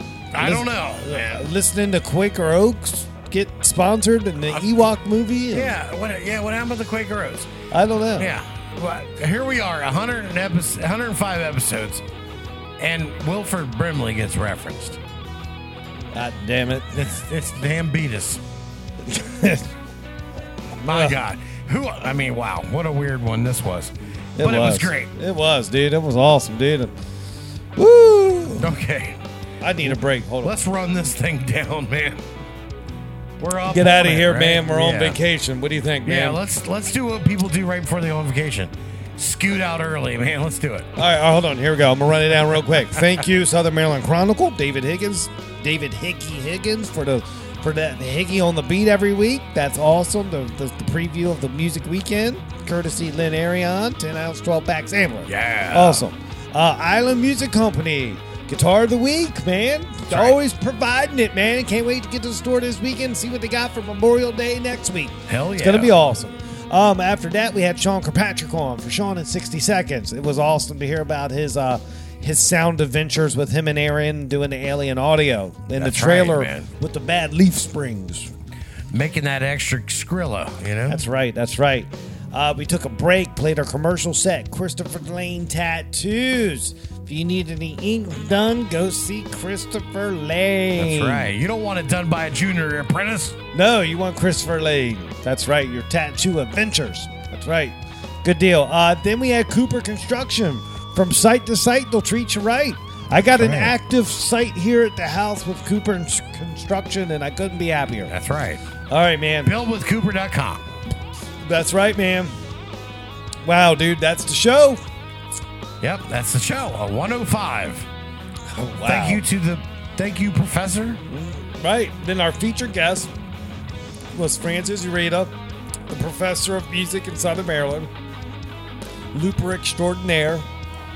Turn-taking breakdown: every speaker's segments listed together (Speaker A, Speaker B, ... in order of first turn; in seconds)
Speaker A: 0.3-1.5, 4.5-4.8, 5.5-7.5, 8.2-12.0, 12.8-15.0, 16.9-18.4, 20.8-25.1, 28.6-29.2, 29.8-32.2, 33.4-35.2, 36.0-41.0, 55.3-56.0, 60.1-60.4, 65.3-65.9, 75.7-76.7, 78.9-81.0, 90.7-93.4, 103.4-103.8, 108.1-108.6, 109.4-110.7, 115.8-117.9, 118.8-121.0
Speaker B: 0.4-5.8, 7.7-8.3, 16.1-17.1, 19.1-19.7, 20.9-21.2, 24.4-26.9, 27.8-28.7, 29.6-30.6, 33.7-36.4, 41.0-78.3, 80.9-91.3, 93.5-108.1, 108.9-109.5, 111.4-112.3, 113.4-114.8, 118.5-119.2, 121.1-123.1, 124.1-125.3, 125.9-127.9, 129.1-130.5